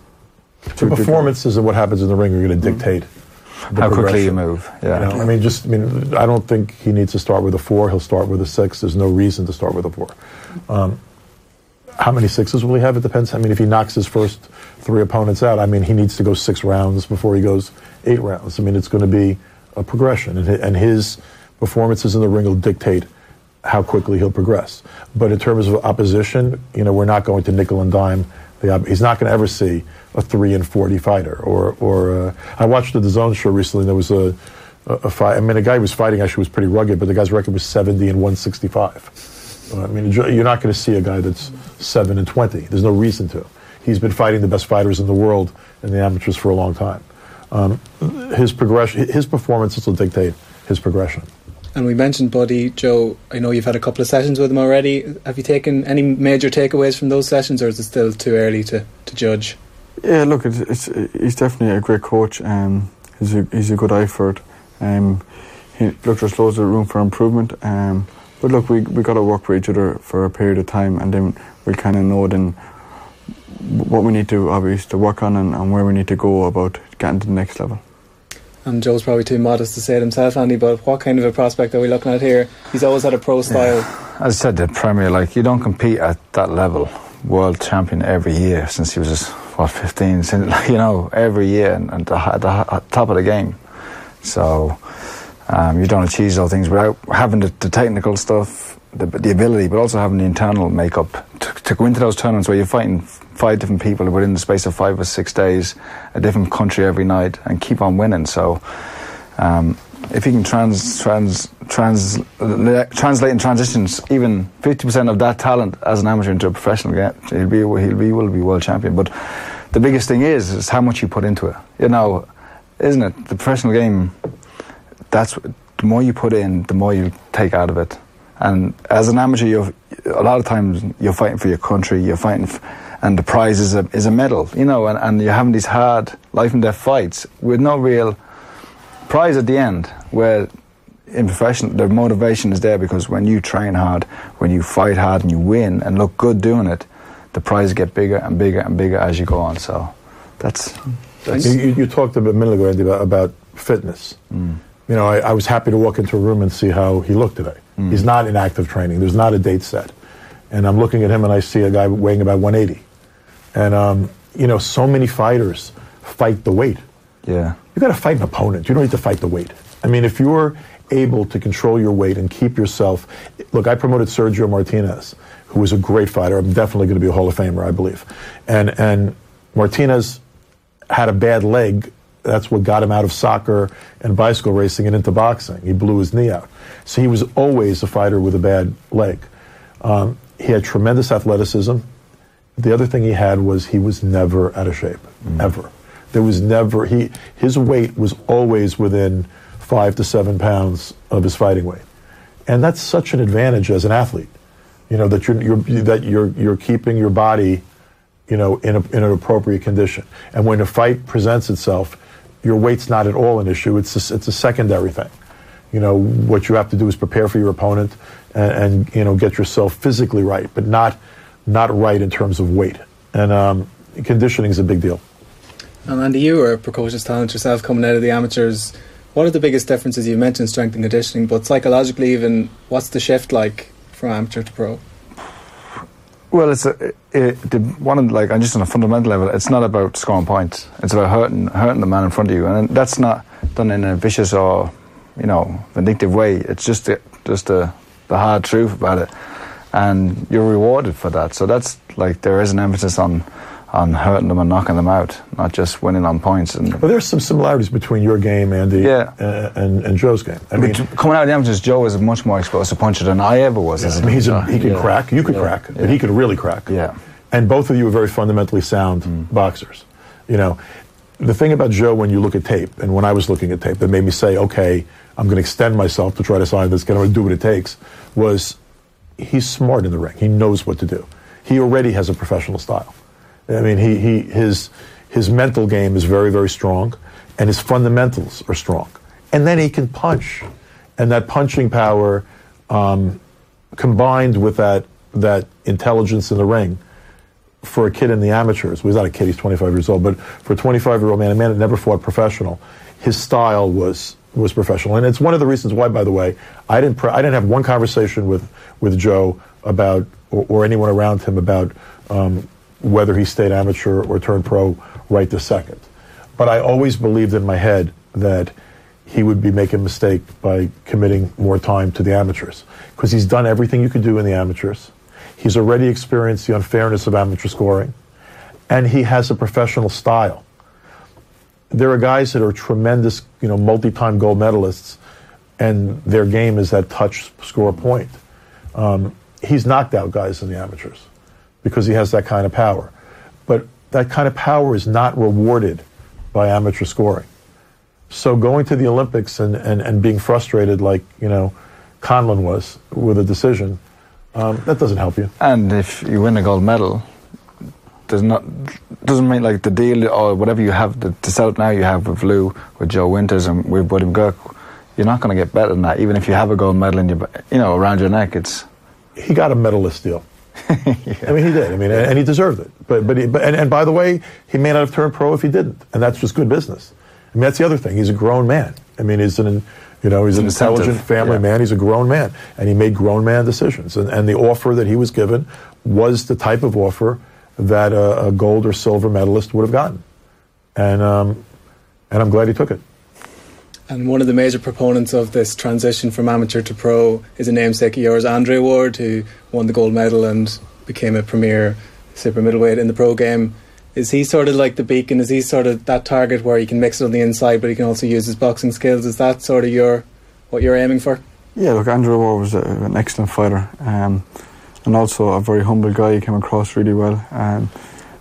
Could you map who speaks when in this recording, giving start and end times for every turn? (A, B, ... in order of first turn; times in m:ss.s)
0:00.7-0:03.1 A
0:00.8-0:01.3 B
0:03.7-0:04.4 A
0:03.7-0:05.2 C
0:04.9-0:10.1 A
0:10.7-0:11.0 A
0:12.0-0:23.1 A
0:23.6-0:39.1 A
0:39.7-0:51.3 A
0:51.7-0:59.6 D
1:00.0-1:12.6 B
1:13.5-1:17.8 B
1:18.6-1:23.9 D
1:23.5-1:33.6 C
1:34.2-2:04.3 C
2:05.1-2:18.2 C
2:19.1-2:20.5 C
2:21.1-2:30.9 C
2:31.3-2:34.2 A
2:34.3-2:34.6 C
2:34.9-2:39.9 A
2:40.5-2:42.8 A
2:43.5-2:46.8 A
2:47.2-2:47.6 C
2:47.7-3:00.2 A
3:00.9-3:09.3 A
3:09.8-3:11.8 A
3:12.6-3:21.8 A
3:22.5-3:24.3 A
3:24.9-3:27.6 A
3:28.3-3:35.1 A
3:35.7-3:45.0 A
3:45.8-3:54.8 D
3:56.3-4:09.1 C
4:09.7-4:16.8 C
4:16.8-4:20.8 A
4:18.8-4:19.1 C
4:20.6-4:26.0 C
4:23.8-4:26.7 A
4:26.7-4:27.0 C
4:27.3-4:30.6 A
4:31.2-4:38.6 A
4:39.2-4:42.9 A
4:43.5-4:50.5 A
4:51.0-4:53.2 A
4:53.8-4:56.8 A
4:57.6-5:15.8 A
5:16.4-5:18.5 A
5:19.0-5:27.9 A
5:28.7-5:30.4 A
5:31.7-5:35.0 A
5:35.6-5:38.2 A
5:38.7-5:41.0 A
5:41.6-5:42.9 A
5:43.5-5:47.3 A
5:48.1-5:53.8 A
5:54.3-5:55.3 A
5:55.4-5:57.0 C
5:58.1-6:08.6 C
6:09.2-6:10.2 A
6:10.7-6:12.0 C
6:11.2-6:30.0 A
6:20.3-6:21.4 C
6:30.8-6:31.4 A
6:32.1-6:32.8 A
6:33.9-6:51.2 D
6:51.6-6:57.8 B